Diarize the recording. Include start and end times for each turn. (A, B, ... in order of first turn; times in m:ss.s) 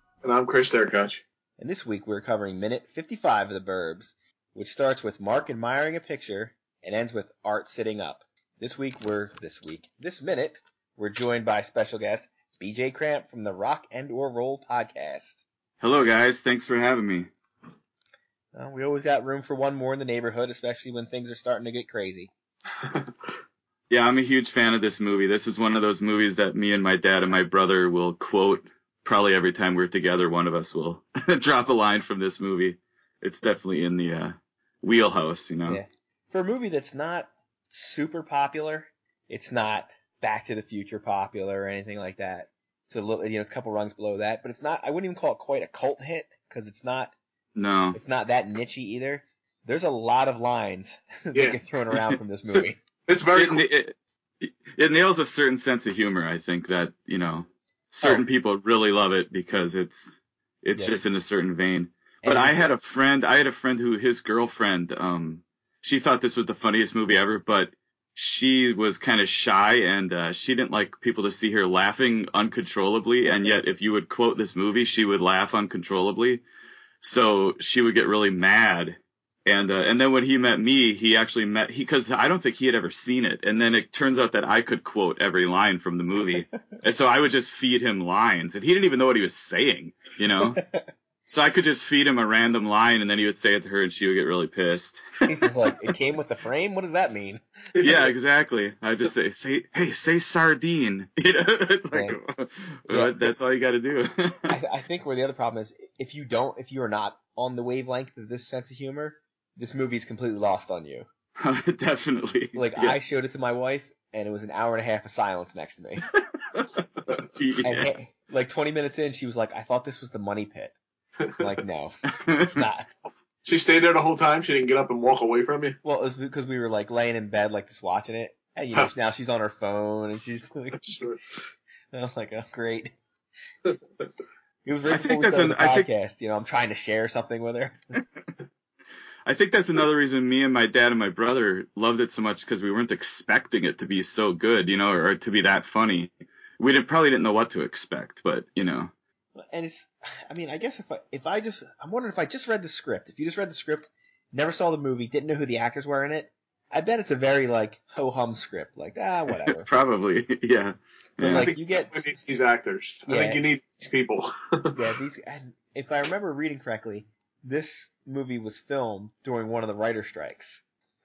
0:00.2-0:01.2 A
0:01.6-0:15.4 B
0:15.8-0:17.3 C
0:18.5-0:22.3 B
0:22.8-0:23.1 A
0:23.9-0:35.8 C
0:35.7-0:47.1 B
0:47.5-0:48.0 C
0:47.9-0:52.8 B
0:51.3-0:51.6 A
0:53.1-0:53.6 A
0:53.3-1:16.4 C
1:00.7-1:01.0 B
1:02.2-1:02.7 B
1:17.0-1:30.6 C
1:30.4-1:30.9 B
1:31.3-1:35.0 C
1:35.2-1:37.4 B
1:37.7-1:38.1 A
1:37.8-1:44.5 C
1:41.9-1:42.2 B
1:42.9-1:43.3 B
1:44.5-1:51.1 B
1:51.4-1:53.0 C
1:52.5-1:56.0 B
1:57.4-1:57.9 C
1:57.6-2:00.7 B
2:01.4-2:02.9 B
2:02.2-2:02.5 C
2:03.4-2:05.8 A
2:05.8-2:10.8 B
2:10.8-2:11.4 A
2:11.9-2:12.9 B
2:14.6-2:17.8 B
2:14.8-2:15.9 C
2:19.2-2:28.9 C
2:29.4-2:39.7 B
2:39.6-2:41.5 C
2:41.2-2:42.1 B
2:41.3-2:44.8 A
2:43.1-2:43.4 B
2:44.7-2:50.6 B